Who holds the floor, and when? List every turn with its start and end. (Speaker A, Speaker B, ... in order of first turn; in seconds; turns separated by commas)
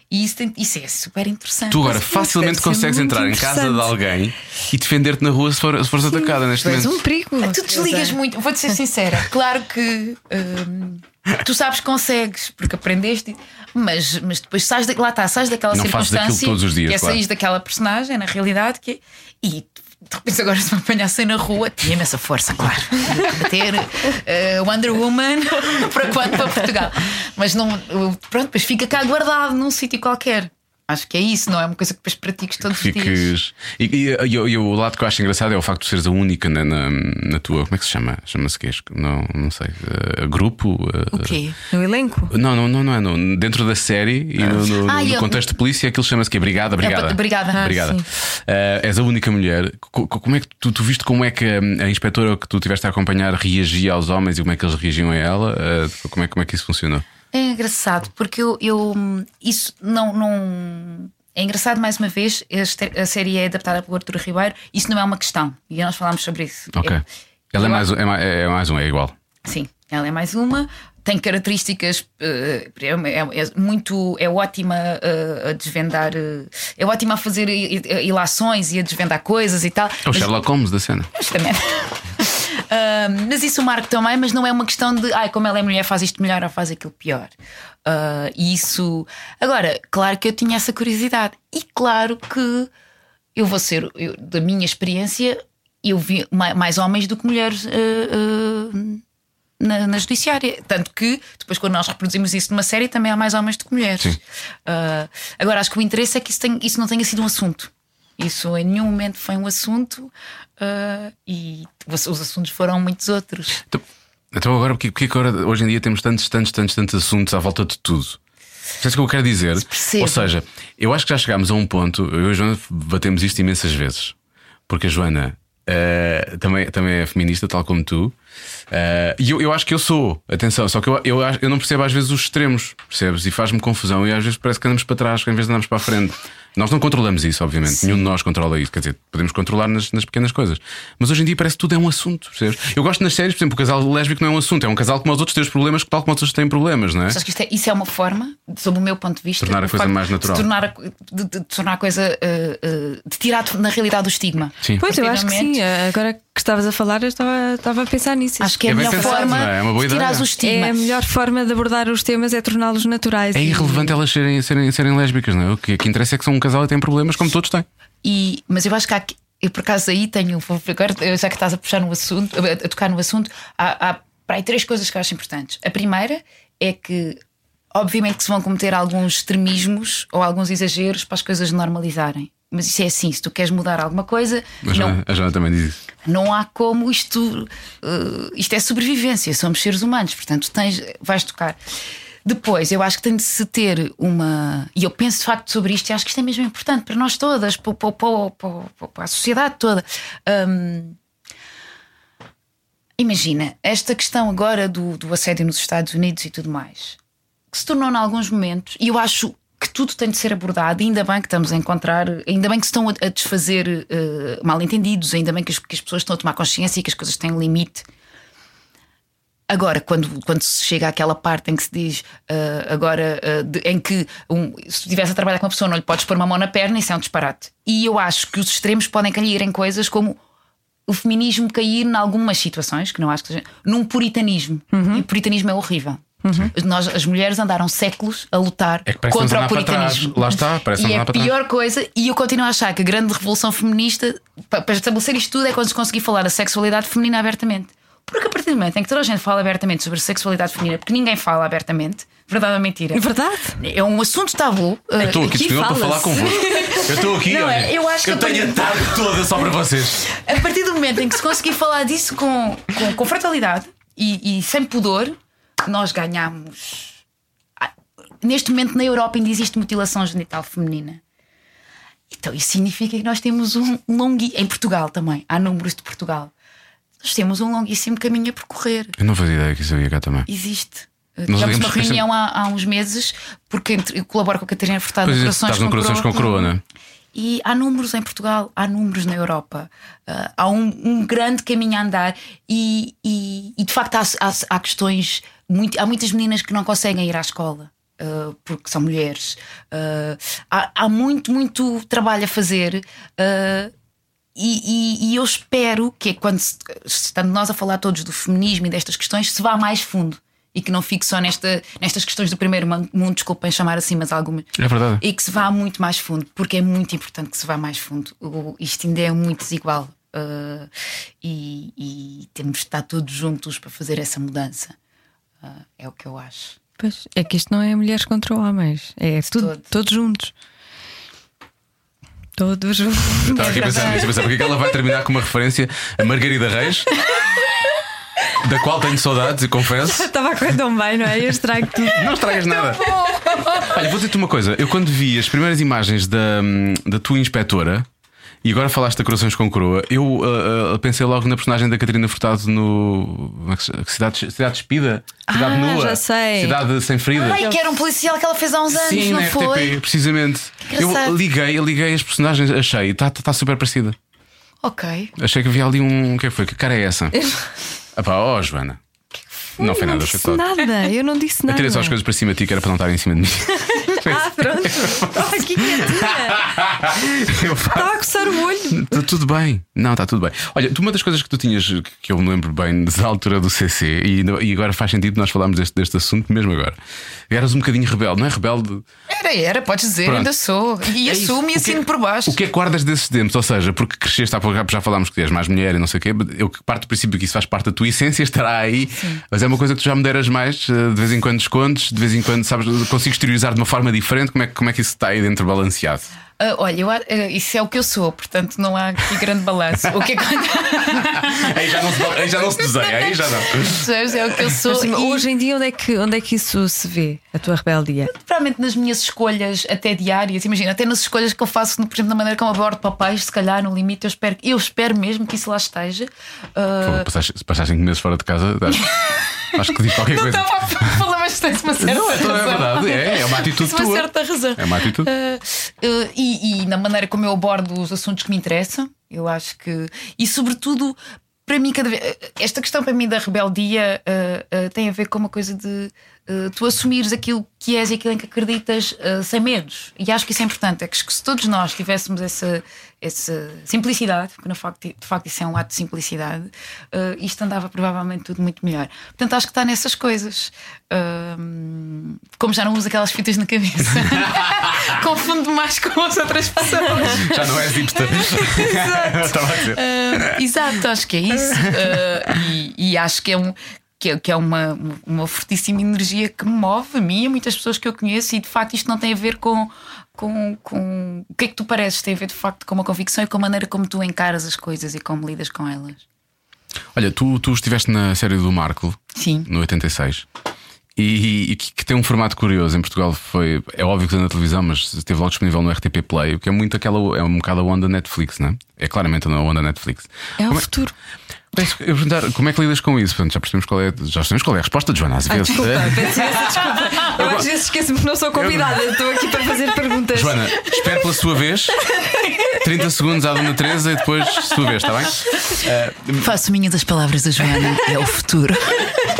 Speaker A: 0.1-2.3, Speaker B: 1.7-7.0, Speaker C: 1.9-3.9, Speaker C: 6.1-8.2, Speaker A: 7.4-33.3, Speaker B: 15.7-17.2, Speaker B: 32.7-41.4, Speaker A: 41.1-41.6, Speaker C: 41.7-42.3, Speaker B: 42.3-57.0, Speaker A: 44.4-45.5, Speaker A: 46.8-47.9, Speaker C: 47.6-48.0, Speaker A: 57.3-67.0, Speaker B: 66.8-69.1, Speaker A: 67.5-67.9, Speaker A: 69.4-80.4, Speaker B: 80.0-81.1, Speaker A: 81.1-87.3, Speaker A: 87.8-92.7, Speaker A: 93.3-99.0, Speaker A: 99.6-113.6, Speaker B: 114.3-118.2, Speaker B: 118.8-124.1, Speaker A: 119.6-120.3, Speaker B: 124.7-128.1, Speaker B: 128.7-147.2, Speaker A: 137.8-138.0, Speaker A: 147.1-155.6, Speaker B: 149.4-150.4, Speaker C: 154.8-159.4, Speaker A: 158.4-160.8, Speaker B: 158.7-160.3, Speaker C: 160.4-163.9, Speaker B: 163.3-167.7, Speaker A: 168.0-177.2, Speaker A: 177.7-185.0, Speaker B: 184.6-185.8, Speaker A: 186.0-191.6, Speaker A: 192.2-201.0, Speaker A: 203.0-207.0, Speaker A: 207.5-217.9, Speaker A: 219.5-230.2, Speaker A: 230.9-253.0, Speaker C: 234.7-235.0, Speaker C: 236.2-236.5, Speaker B: 238.9-241.3, Speaker C: 252.9-253.6, Speaker A: 253.6-255.4, Speaker B: 255.0-260.1, Speaker C: 255.1-257.1, Speaker A: 257.1-259.2, Speaker A: 260.1-267.0, Speaker A: 267.6-271.0, Speaker A: 272.1-276.3, Speaker A: 277.0-279.0, Speaker B: 279.0-280.3, Speaker A: 280.3-286.5, Speaker B: 281.3-282.0, Speaker B: 285.0-286.6, Speaker A: 287.1-303.7, Speaker A: 304.4-320.7, Speaker B: 314.6-315.0, Speaker A: 321.2-324.7, Speaker A: 325.4-326.6, Speaker C: 326.8-330.3, Speaker A: 329.3-329.6, Speaker C: 332.4-334.2, Speaker B: 333.2-336.9, Speaker A: 333.5-333.8, Speaker B: 338.3-340.1, Speaker C: 339.8-342.1, Speaker B: 341.8-342.9, Speaker A: 342.6-343.7, Speaker B: 343.5-347.9, Speaker B: 348.4-357.4, Speaker C: 355.3-356.6, Speaker A: 357.1-359.8, Speaker B: 358.7-363.9, Speaker A: 360.6-361.1, Speaker A: 364.6-365.1, Speaker B: 365.2-367.2, Speaker B: 367.9-368.8, Speaker B: 369.6-370.5, Speaker C: 369.6-371.9, Speaker B: 371.5-378.0, Speaker C: 373.7-376.5, Speaker C: 377.3-378.9, Speaker B: 378.7-386.8, Speaker B: 387.3-388.8, Speaker A: 389.1-392.4, Speaker B: 390.0-390.3, Speaker B: 391.0-406.1, Speaker A: 406.4-411.7, Speaker B: 411.0-414.5, Speaker A: 413.5-415.2, Speaker C: 414.7-418.1, Speaker A: 418.1-427.1, Speaker B: 426.8-431.0, Speaker A: 428.7-467.5, Speaker B: 431.8-435.1, Speaker B: 464.0-464.9, Speaker B: 466.9-470.4, Speaker C: 468.1-469.3, Speaker A: 469.6-486.0, Speaker B: 486.9-490.2, Speaker A: 489.1-489.5, Speaker B: 490.9-500.7, Speaker C: 500.4-500.9, Speaker B: 501.5-507.5, Speaker C: 505.3-510.6, Speaker B: 508.3-508.8, Speaker B: 510.1-511.9, Speaker B: 512.5-516.3, Speaker A: 516.2-518.9